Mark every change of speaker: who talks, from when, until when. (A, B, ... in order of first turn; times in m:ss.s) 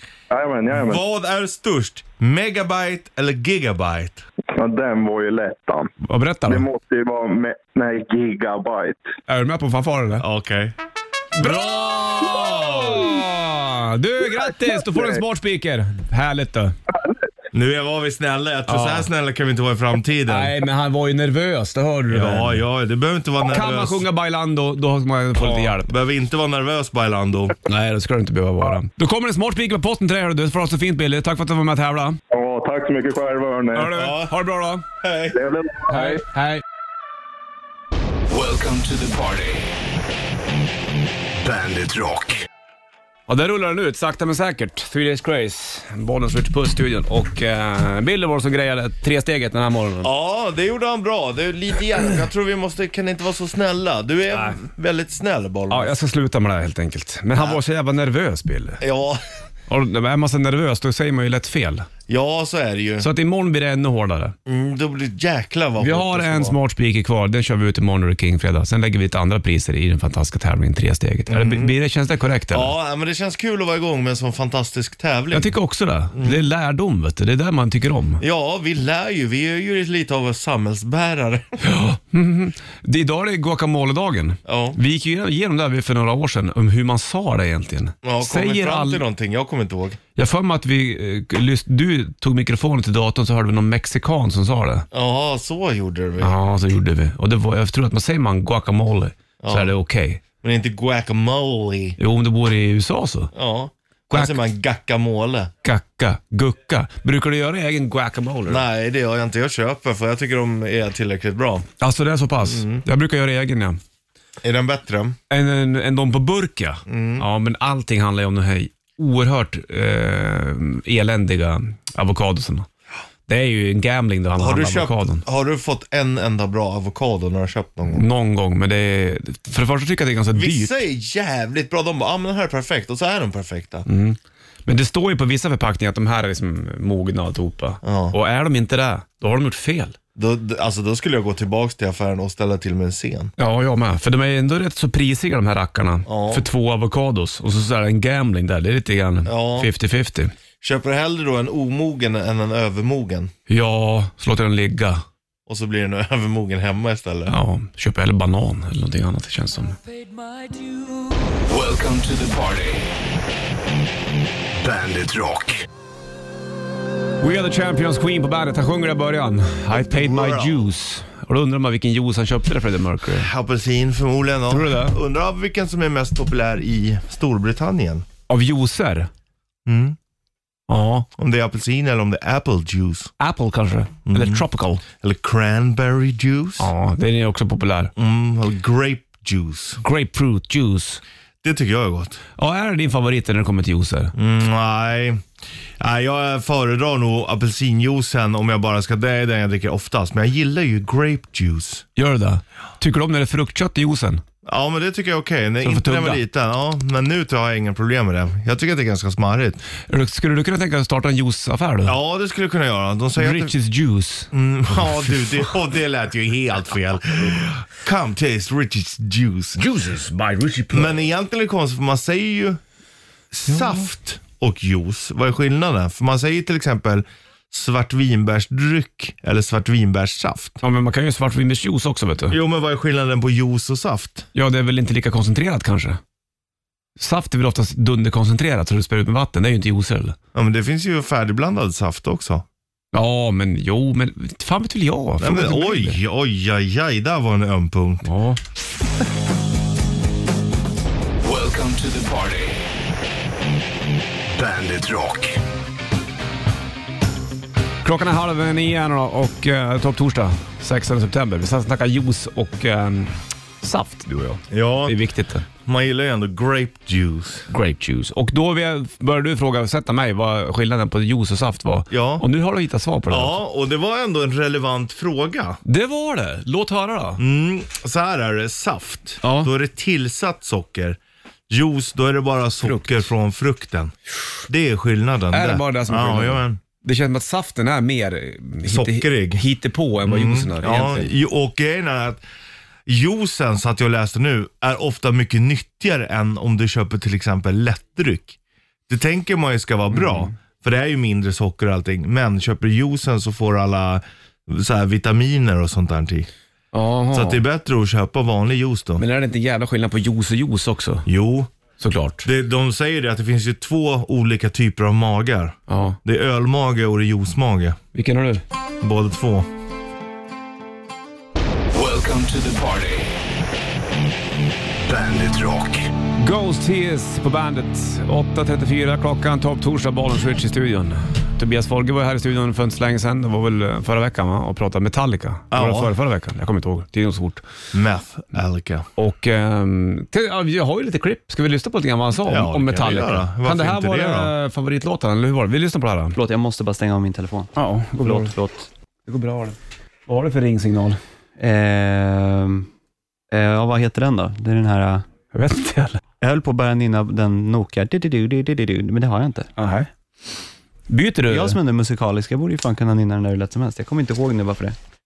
0:00.3-0:01.0 A
0:00.7-0:04.2 B
0:04.5-0:05.9 A
0:06.0-0:06.6 C
0:06.5-0:09.1 A
0:09.3-0:10.2 C
0:10.2-0:10.7 B
0:11.4-0:16.7 C
0:11.4-0:13.0 B
0:17.5-0:20.5 B
0:18.7-0:19.1 C
0:20.3-0:22.6 C
0:22.1-0:24.0 B
0:23.4-0:25.9 C
0:25.4-0:27.6 B
0:27.6-0:32.2 C
0:32.3-0:33.9 A
0:33.7-0:34.8 C
0:33.9-0:34.4 B
0:35.0-0:35.4 B
0:35.3-0:36.2 A
0:35.9-0:36.6 C
0:38.3-0:39.7 D
0:41.4-0:42.4 D
0:43.3-0:50.1 C
0:50.0-0:55.9 B
0:55.7-0:58.8 C
0:57.3-0:57.6 B
0:58.8-0:59.2 B
0:59.7-1:01.9 C
1:02.1-1:03.1 B
1:03.0-1:04.3 C
1:04.4-1:06.6 B
1:05.8-1:12.7 C
1:11.3-1:11.7 B
1:12.5-1:15.5 B
1:15.3-1:18.2 C
1:16.1-1:16.4 B
1:18.2-1:21.5 B
1:21.6-1:29.0 C
1:24.4-1:24.8 B
1:28.0-1:30.0 B
1:30.2-1:34.8 C
1:34.9-1:36.4 B
1:36.2-1:40.2 C
1:39.4-1:39.7 B
1:40.4-1:42.0 B
1:42.0-1:43.3 C
1:43.3-1:45.5 B
1:44.1-1:44.4 C
1:45.6-1:48.6 C
1:48.5-1:51.7 B
1:51.8-1:53.8 C
1:52.4-1:52.8 B
1:54.4-1:55.2 B
1:55.3-2:02.7 C
1:56.9-1:57.2 B
2:03.3-2:05.2 C
2:04.4-2:08.0 B
2:07.9-2:10.8 C
2:10.3-2:13.8 B
2:13.8-2:20.0 C
2:17.8-2:18.2 B
2:20.2-2:23.3 B
2:23.4-2:30.3 C
2:26.0-2:26.4 B
2:29.2-2:29.7 B
2:30.6-2:33.3 B
2:33.5-2:35.0 C
2:35.5-2:37.3 B
2:37.3-2:39.8 C
2:39.8-2:42.9 D
2:44.6-2:45.6 D
2:47.2-2:53.3 C
2:49.7-2:50.7 B
2:53.1-2:58.0 B
2:54.5-2:54.9 C
2:58.3-2:59.1 C
2:59.6-3:00.0 B
3:00.7-3:01.1 C
3:01.2-3:03.1 B
3:03.2-3:04.8 C
3:04.1-3:04.4 B
3:04.9-3:06.7 B
3:06.6-3:07.9 C
3:08.0-3:09.8 B
3:09.8-3:11.0 C
3:11.4-3:12.2 B
3:12.4-3:14.1 C
3:14.1-3:15.2 B
3:15.8-3:21.8 B
3:22.0-3:24.2 C
3:24.4-3:29.6 B
3:25.6-3:26.2 C
3:29.9-3:32.0 C
3:31.8-3:33.5 B
3:33.2-3:35.5 C
3:34.3-3:39.6 B
3:39.6-3:41.0 C
3:40.7-3:42.6 B
3:43.3-3:50.6 B
3:43.5-3:43.8 C
3:50.6-3:52.4 C
3:52.3-3:54.3 B
3:54.3-3:56.0 C
3:57.0-4:00.2 C
4:00.3-4:02.4 B
4:02.9-4:06.0 C
4:05.2-4:08.1 B
4:08.0-4:08.4 C
4:11.2-4:12.6 D
4:14.3-4:15.4 D
4:17.8-4:25.4 C
4:24.5-4:24.9 B
4:25.6-4:27.5 B
4:27.5-4:33.4 C
4:31.9-4:32.2 B
4:33.1-4:35.6 B
4:35.6-4:37.2 C
4:37.2-4:41.0 B
4:39.2-4:39.5 C
4:41.5-4:43.9 B
4:42.6-4:43.1 C
4:44.5-4:46.6 B
4:45.3-4:51.1 C
4:48.6-4:49.4 B
4:50.0-4:52.2 B
4:52.8-4:58.4 B
4:58.9-5:06.3 B
4:59.9-5:00.3 C
5:06.7-5:07.4 C
5:07.1-5:09.0 B
5:09.0-5:11.0 C
5:11.0-5:11.5 B
5:11.8-5:12.2 C
5:12.2-5:17.8 B
5:15.7-5:16.0 C
5:17.9-5:18.4 C
5:18.8-5:19.5 B
5:21.7-5:23.1 D
5:24.8-5:25.9 D
5:26.2-5:37.4 C
5:35.5-5:35.9 B
5:37.7-5:38.8 B
5:39.0-5:46.1 C
5:42.2-5:44.3 B
5:46.1-5:48.7 E
5:47.5-5:48.3 C
5:49.1-5:51.0 C
5:51.4-5:52.7 E
5:53.3-5:55.0 E
5:55.3-5:56.0 C
5:56.2-5:59.5 E
5:59.6-5:59.9 C
6:00.9-6:01.6 C
6:01.3-6:04.8 E